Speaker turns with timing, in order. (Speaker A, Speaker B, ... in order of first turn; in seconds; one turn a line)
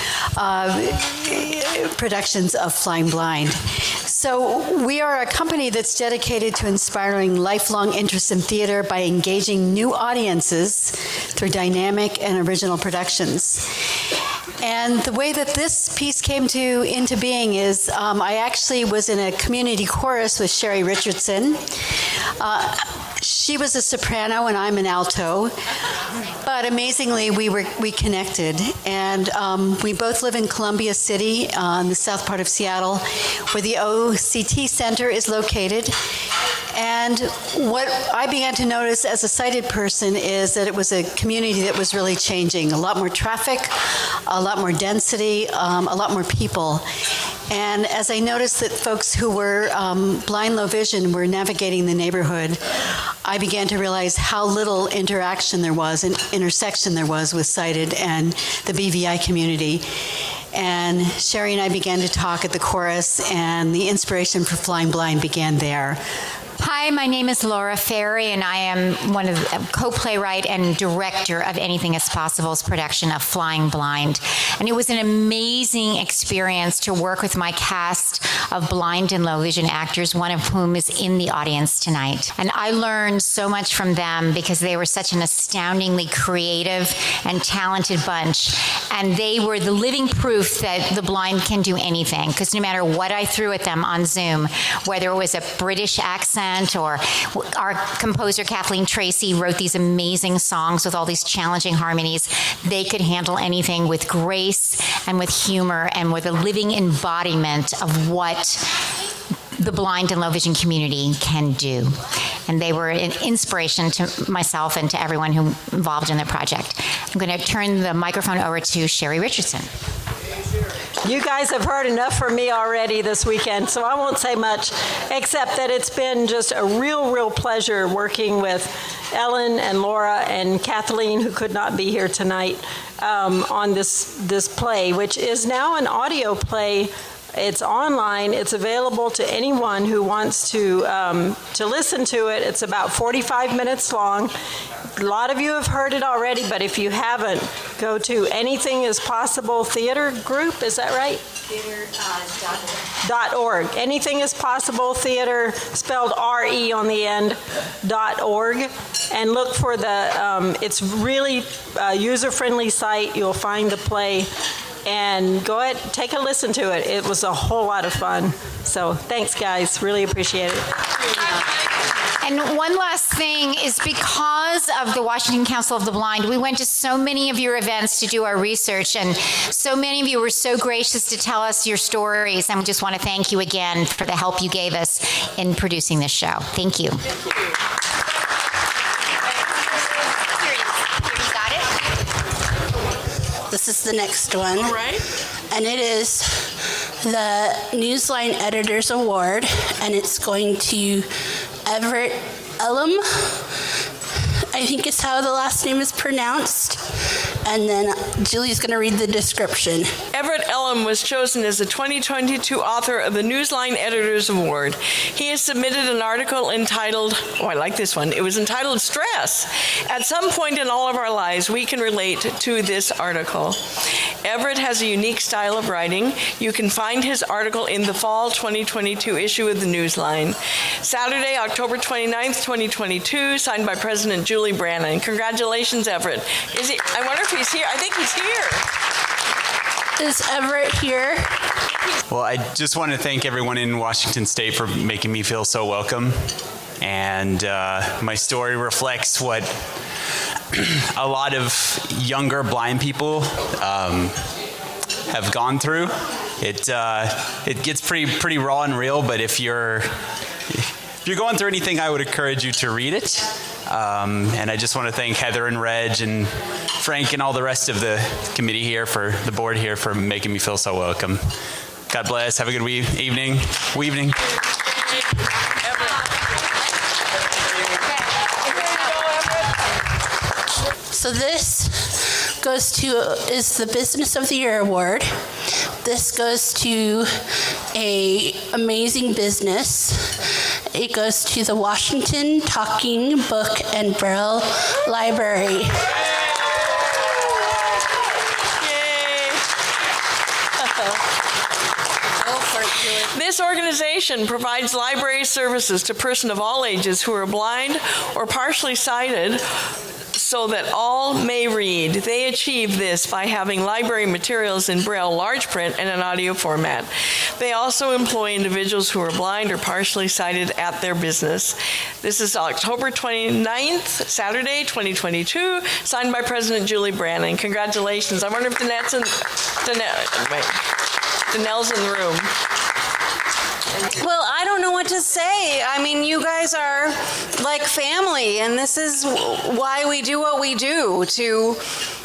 Speaker A: 0.4-13.7
Speaker A: 14.6-21.6
Speaker A: 22.4-25.5
Speaker A: 26.4-36.0
Speaker A: 36.8-43.7
Speaker A: 44.2-46.9
Speaker A: 47.5-52.6
Speaker A: 53.2-59.9
Speaker A: 60.5-66.0
Speaker B: 66.6-108.6
Speaker B: 109.6-119.7
Speaker C: 121.0-144.3
Speaker C: 145.0-151.2
Speaker C: 153.0-164.3
Speaker C: 164.8-170.7
Speaker B: 172.2-187.0
Speaker D: 193.5-194.8
Speaker E: 194.6-195.0
Speaker D: 195.5-201.1
Speaker D: 201.6-203.4
Speaker D: 204.5-206.9
Speaker D: 207.4-210.0
Speaker E: 210.1-223.6
Speaker E: 224.2-238.7
Speaker D: 240.0-241.4
Speaker F: 242.1-246.2
Speaker F: 246.8-249.5
Speaker F: 250.5-254.2
Speaker F: 255.1-260.0
Speaker F: 260.5-271.3
Speaker F: 271.9-274.2
Speaker D: 280.9-285.2
Speaker D: 285.8-295.8
Speaker E: 298.6-299.4
Speaker E: 300.6-300.9
Speaker E: 302.8-309.4
Speaker E: 310.1-330.6
Speaker E: 331.3-332.3
Speaker G: 334.0-341.6